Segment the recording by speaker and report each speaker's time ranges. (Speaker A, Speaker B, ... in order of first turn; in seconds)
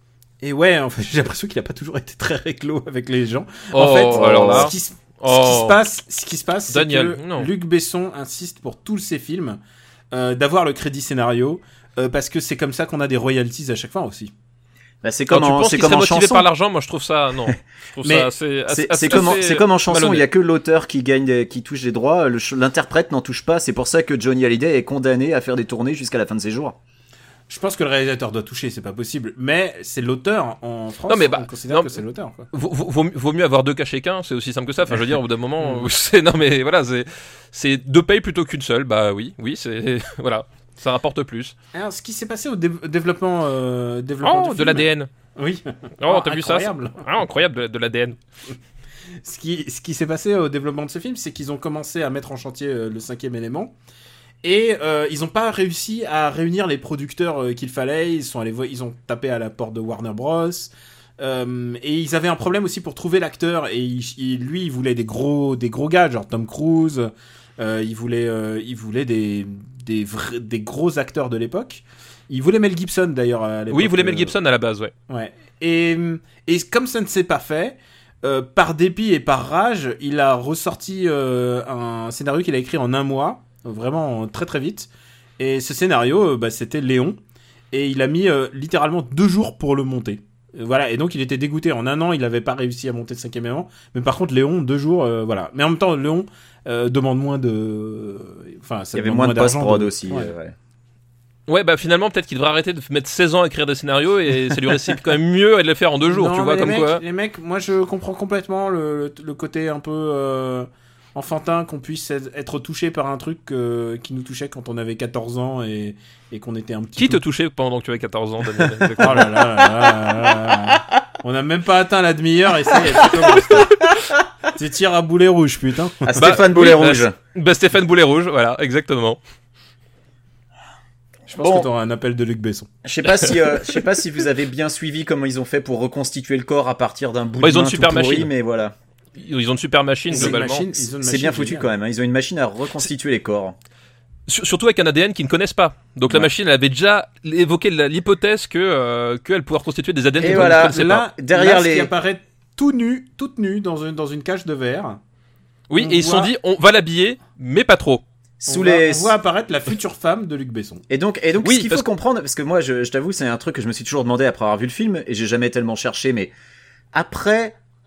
Speaker A: 0.4-9.6, 10.1-14.3, 18.0-18.3, 27.5-32.5, 35.6-35.9, 41.7-47.0, 49.2-53.7, 54.4-74.3, 75.1-87.2, 87.7-100.3, 106.1-117.2, 119.0-123.9, 124.5-126.1, 131.3-132.7, 140.1-141.7, 150.2-155.0, 155.8-156.3, 158.5-160.8
Speaker B: 3.7-5.8, 6.7-7.5, 15.3-20.2, 31.1-32.0, 32.5-41.5, 44.2-45.1, 46.0-48.2, 73.7-74.9, 101.5-107.0, 117.0-119.4, 126.2-129.2, 137.4-138.3, 139.2-140.7, 144.3-151.0, 155.7-158.0, 161.4-161.9
Speaker C: 4.1-4.7, 15.0-16.5, 18.7-26.8, 98.9-100.5, 126.0-127.2, 131.4-131.7, 132.8-138.7, 141.0-143.6, 150.2-151.9, 158.4-159.1, 160.9-166.3, 166.9-167.6